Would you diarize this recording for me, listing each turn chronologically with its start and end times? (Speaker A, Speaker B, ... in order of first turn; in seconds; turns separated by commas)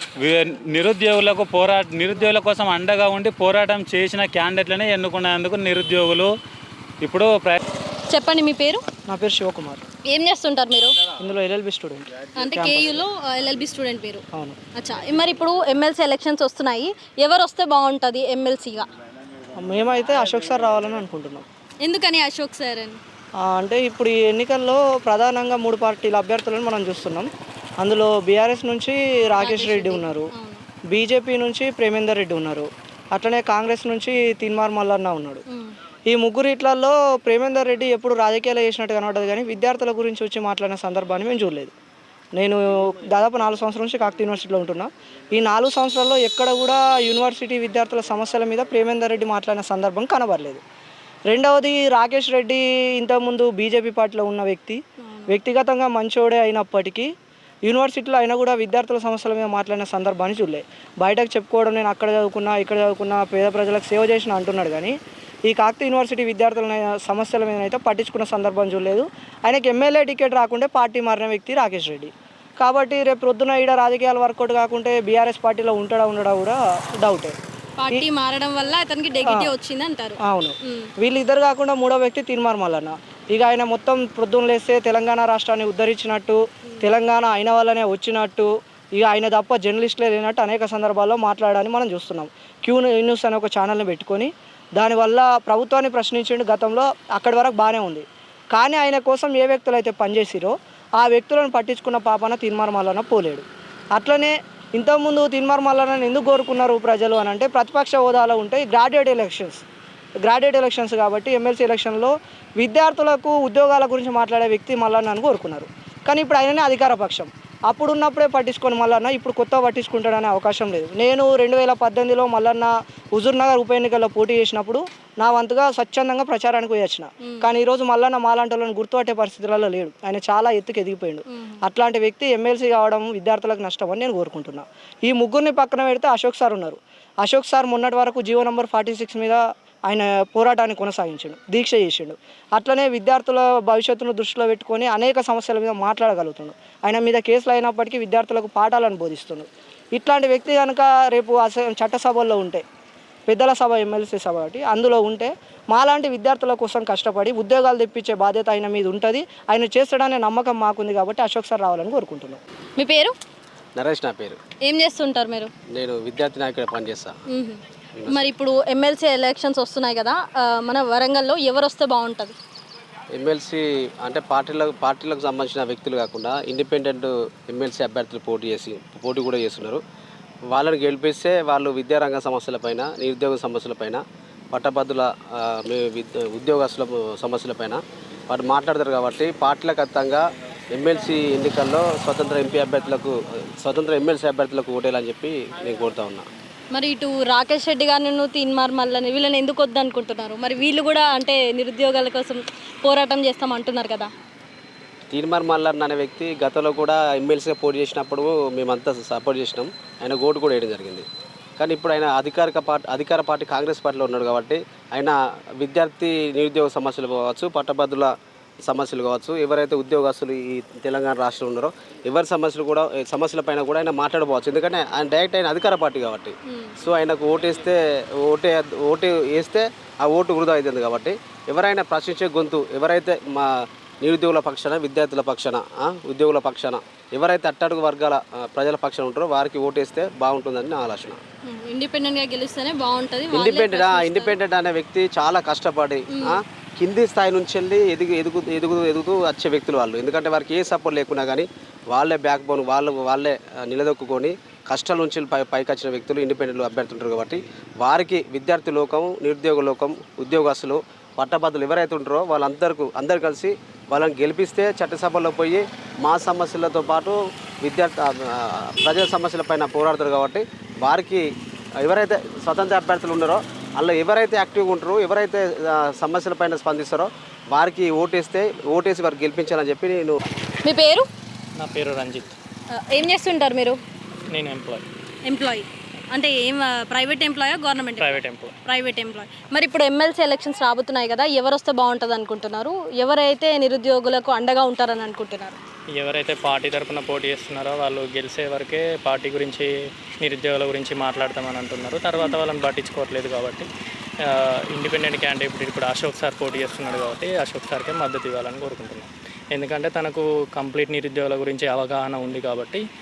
Speaker A: 0.2-6.3, Speaker A: 7.0-7.6, Speaker B: 8.1-8.8, Speaker C: 9.1-9.8, Speaker B: 10.1-10.9, Speaker C: 11.2-13.0, Speaker B: 12.4-14.2, Speaker B: 14.8-18.9, Speaker C: 19.6-21.5, Speaker B: 21.8-23.0, Speaker C: 23.4-27.3, Speaker C: 27.8-30.3, Speaker B: 29.4-30.6, Speaker C: 30.9-35.4, Speaker C: 36.1-41.7, Speaker C: 42.3-50.6, Speaker C: 51.3-57.1, Speaker B: 55.0-55.3, Speaker C: 57.6-65.0, Speaker C: 65.5-77.3, Speaker B: 77.8-80.9, Speaker C: 79.3-79.5, Speaker C: 80.2-109.6, Speaker C: 110.2-152.6, Speaker B: 131.3-131.6, Speaker C: 153.3-162.4, Speaker B: 162.8-163.1, Speaker D: 163.8-164.4, Speaker B: 164.6-165.5, Speaker D: 165.7-167.1, Speaker B: 167.3-172.3, Speaker D: 167.9-168.2, Speaker D: 173.1-179.8, Speaker D: 180.5-196.3, Speaker B: 196.7-204.1, Speaker D: 205.1-211.1, Speaker D: 211.6-218.1, Speaker D: 218.6-233.5, Speaker B: 226.4-226.8, Speaker D: 234.0-241.2, Speaker B: 241.4-244.4, Speaker D: 243.3-271.2, Speaker B: 246.1-246.4, Speaker D: 271.8-280.2, Speaker B: 280.6-281.1, Speaker E: 281.6-282.4, Speaker B: 282.7-283.8, Speaker E: 284.3-284.9, Speaker B: 285.2-295.6, Speaker E: 288.0-288.6, Speaker E: 295.9-303.7, Speaker E: 304.2-312.8